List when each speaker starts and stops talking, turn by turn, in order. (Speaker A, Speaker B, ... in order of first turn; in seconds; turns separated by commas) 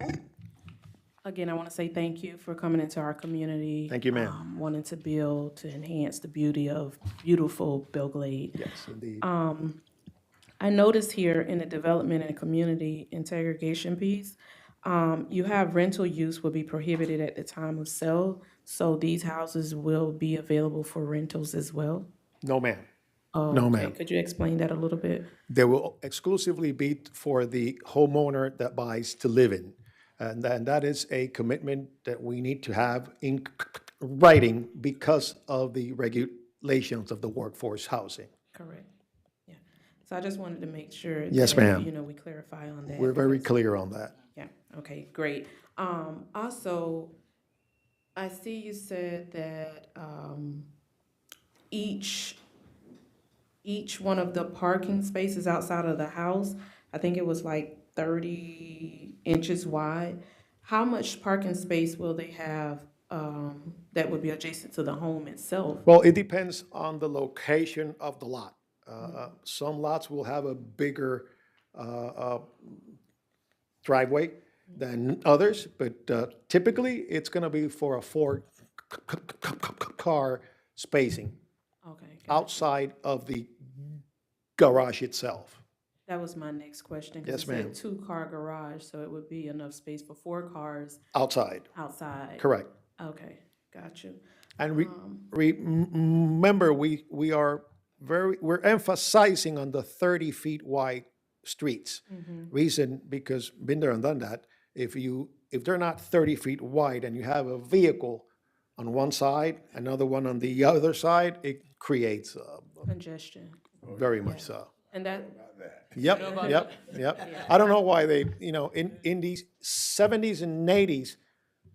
Speaker A: 1.2-8.6, Speaker B: 3.9-4.4, Speaker B: 8.6-9.2, Speaker A: 9.2-9.8, Speaker A: 10.6-22.1, Speaker B: 22.4-22.9, Speaker A: 23.3-25.3, Speaker B: 23.5-23.9, Speaker B: 25.5-38.3, Speaker A: 38.5-38.9, Speaker A: 39.5-43.5, Speaker B: 41.3-41.9, Speaker B: 43.0-44.1, Speaker A: 44.3-47.1, Speaker A: 48.1-50.7, Speaker A: 51.7-52.4, Speaker A: 53.6-65.8, Speaker B: 65.8-73.0, Speaker B: 73.8-81.4, Speaker A: 81.8-82.6, Speaker B: 82.3-83.8, Speaker B: 84.6-85.6, Speaker A: 86.1-91.0, Speaker B: 87.2-87.8, Speaker B: 91.1-91.7, Speaker A: 91.7-92.5, Speaker B: 92.4-92.7, Speaker A: 93.0-94.2, Speaker B: 94.6-112.8, Speaker A: 94.7-95.2, Speaker A: 102.1-102.5, Speaker A: 112.8-113.6, Speaker B: 113.9-114.7, Speaker A: 114.2-115.4, Speaker B: 115.9-121.2, Speaker A: 116.0-117.5